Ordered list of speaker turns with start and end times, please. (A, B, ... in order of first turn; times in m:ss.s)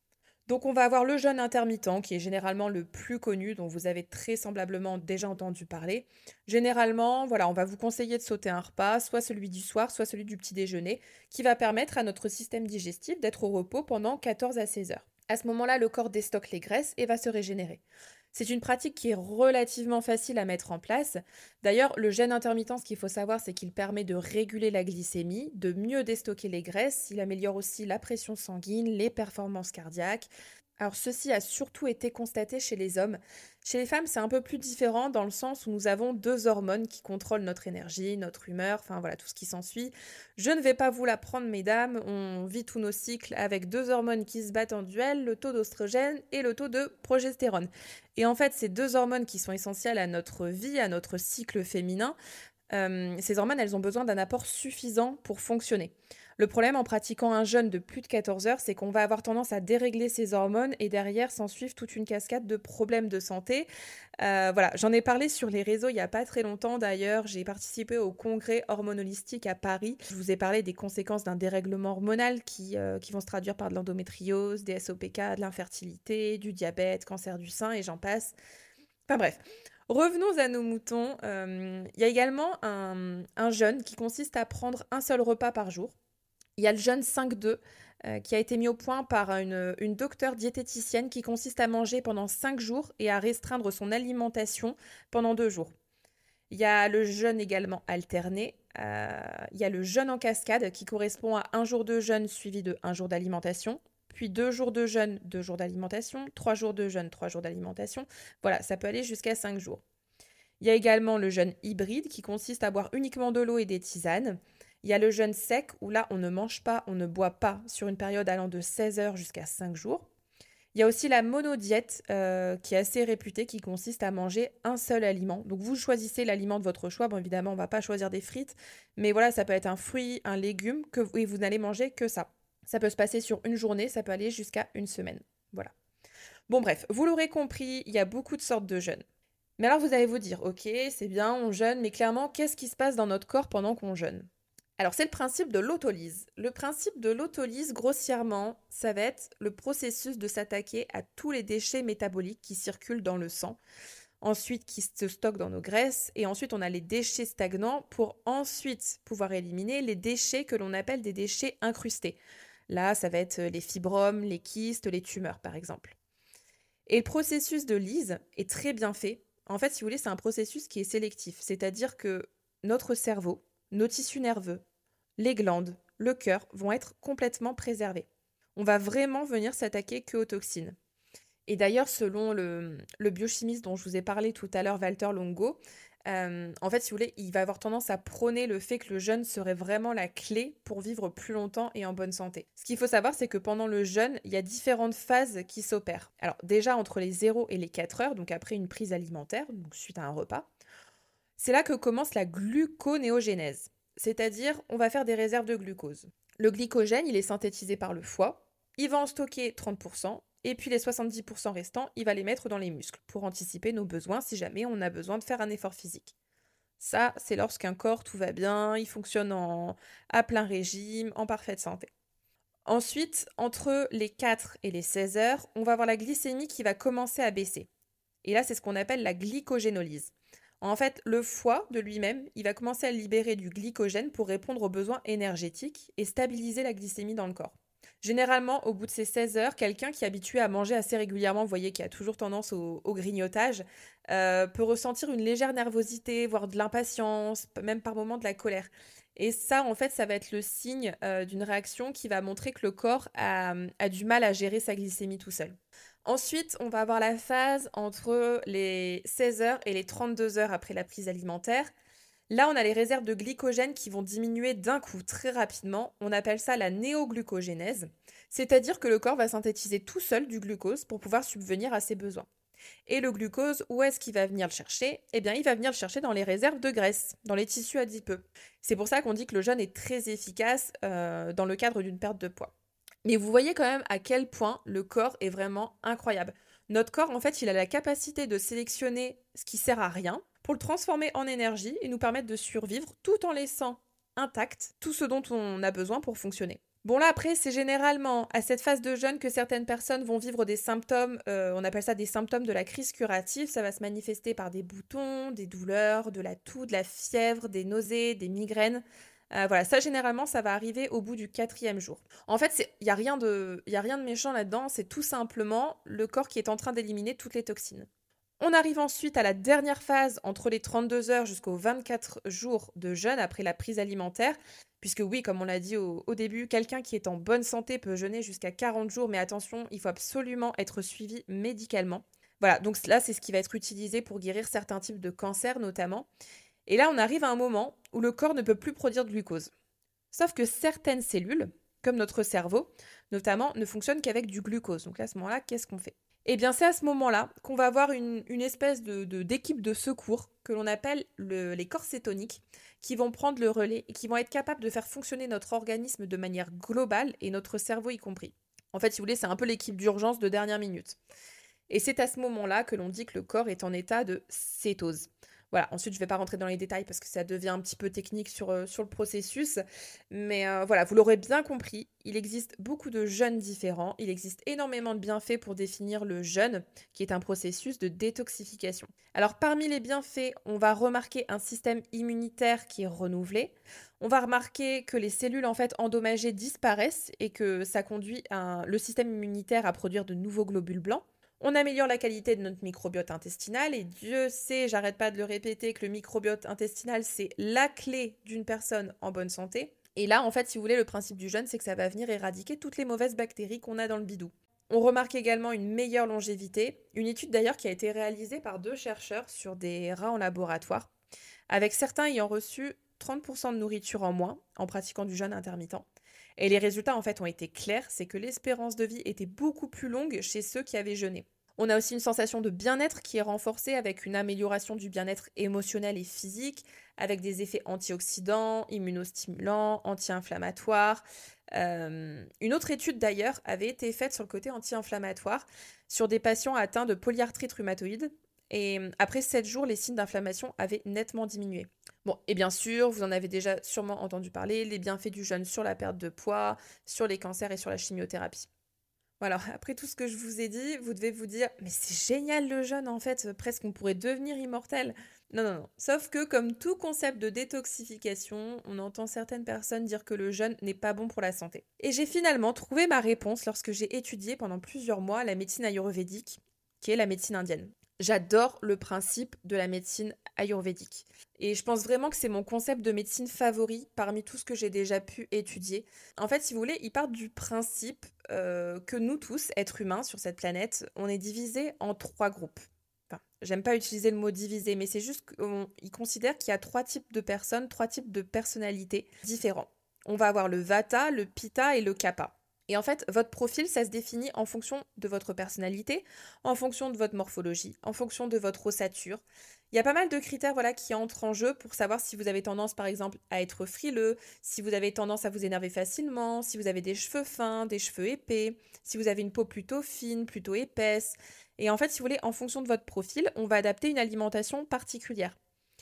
0:00.5-0:17.8 A
0:18.3-0:52.2 A
0:52.7-1:03.7 A
1:04.2-1:18.4 A
1:19.1-1:26.0 A
1:26.6-1:35.7 A
1:36.5-1:49.8 A
1:50.6-2:00.1 A
2:00.7-2:15.7 A
2:16.5-2:19.0 A
2:19.6-2:24.3 A
2:24.8-2:33.6 A
2:34.2-2:42.2 A
2:42.7-2:46.0 A
2:46.9-2:54.6 A
2:55.2-3:00.8 A
3:01.5-3:20.5 A
3:21.4-3:36.2 A
3:36.8-3:41.9 A
3:42.7-3:47.7 A
3:48.2-4:21.7 A
4:22.3-4:32.3 A
4:32.9-4:42.5 A
4:43.0-5:17.9 A
5:18.4-5:36.1 A
5:36.7-5:39.5 A
5:40.1-6:01.0 A
6:01.7-6:50.9 A
6:51.5-7:11.0 A
7:11.6-7:28.5 A
7:29.2-8:35.4 A